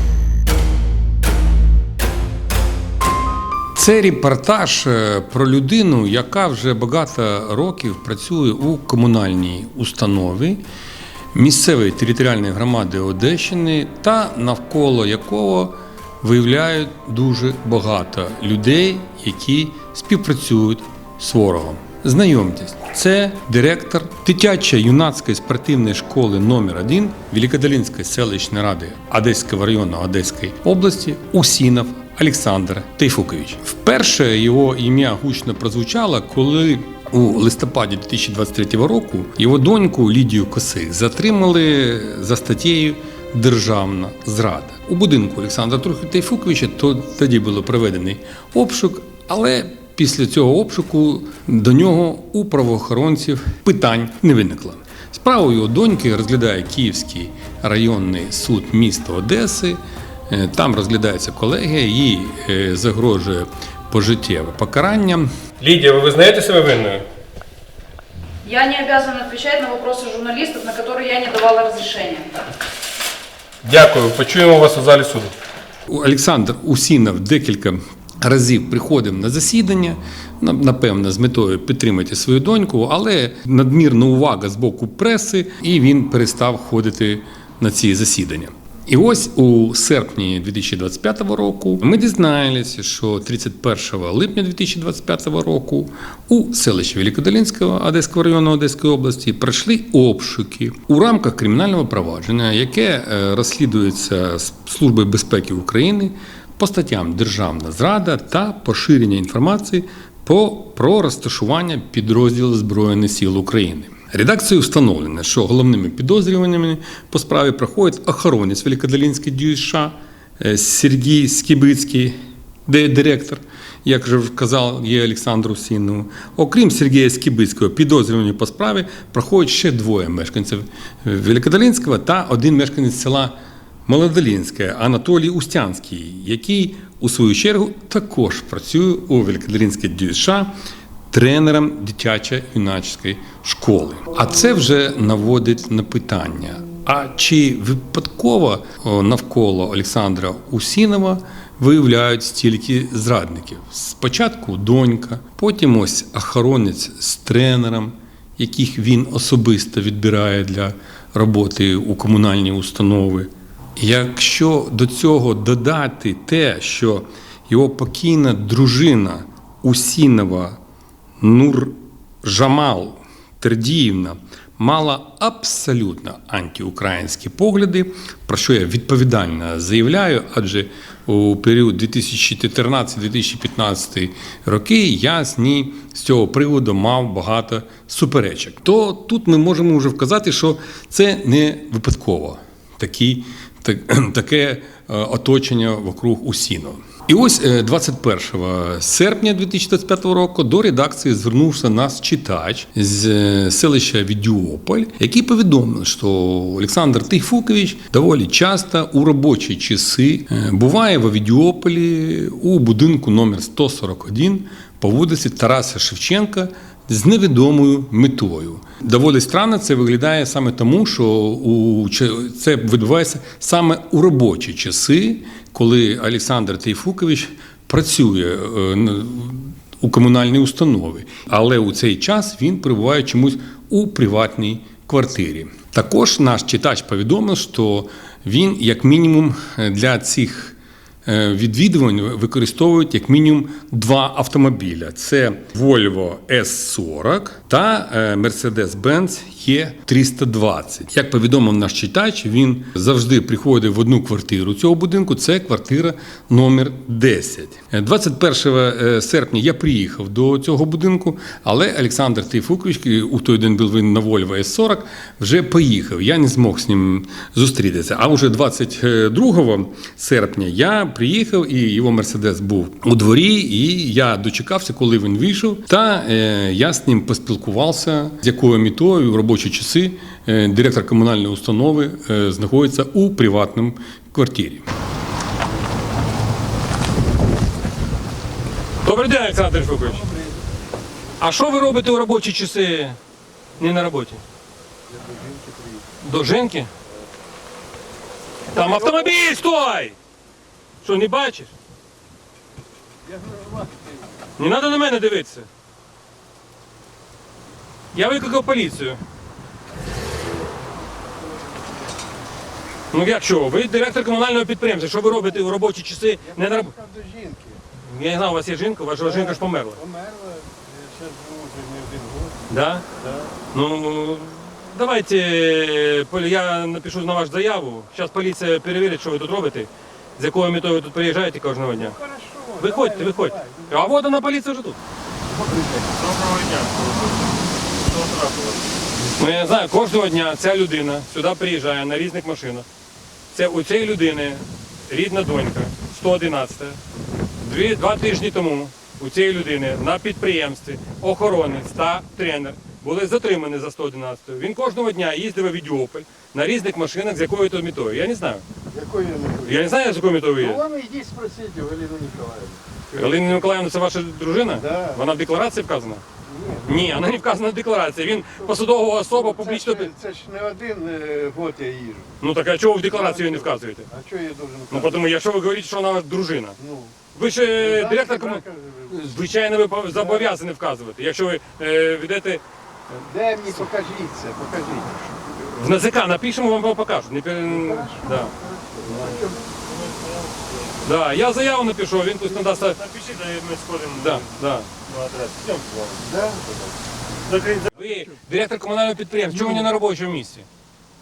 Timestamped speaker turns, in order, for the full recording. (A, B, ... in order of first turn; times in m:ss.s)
0:03.8-0:10.6 A
0:11.3-1:07.0 A
1:08.4-1:12.3 B
1:13.6-1:15.3 A
1:15.9-2:02.2 A
2:02.7-2:13.3 A
2:13.8-2:20.5 A
2:21.1-2:50.6 A
2:51.2-4:44.6 A
4:48.8-4:50.0 C
4:51.2-4:53.0 C
4:53.6-4:54.2 C
4:54.9-4:55.8 D
4:56.0-4:56.7 C
4:58.5-5:00.0 C
4:58.6-4:59.1 D
5:00.8-5:01.5 C
5:03.1-5:04.0 D
5:04.4-5:05.5 C
5:07.9-5:09.0 C
5:12.9-5:16.7 C
5:15.1-5:15.4 D
5:16.2-5:17.6 D
5:17.8-5:19.8 C
5:19.0-5:22.4 D
5:22.5-5:22.9 C
5:23.0-5:23.3 D
5:23.5-5:32.0 C
5:31.8-5:33.8 D
5:32.6-5:34.8 C
5:35.3-5:35.9 D
5:36.0-5:38.7 E
5:39.2-5:42.6 C
5:43.3-5:46.8 C
5:47.4-5:58.4 C
5:58.7-5:59.7 D
5:59.4-6:00.6 C
6:00.4-6:03.4 D
6:02.9-6:06.0 C
6:04.5-6:05.0 D
6:06.2-6:07.0 D
6:06.6-6:09.9 C
6:09.1-6:12.1 D
6:12.2-6:13.9 C
6:12.9-6:15.0 D
6:14.7-6:16.6 C
6:16.6-6:16.9 D
6:17.1-6:22.4 C
6:17.6-6:19.0 D
6:20.0-6:20.3 D
6:23.0-6:25.2 D
6:25.4-6:28.3 C
6:27.5-6:29.4 D
6:29.0-6:30.8 E
6:30.8-6:32.8 C
6:32.8-6:34.2 E
6:33.9-6:34.7 C
6:34.8-6:36.7 E
6:36.0-6:36.4 D
6:37.2-6:37.6 E
6:37.6-6:40.5 C
6:39.3-6:39.7 D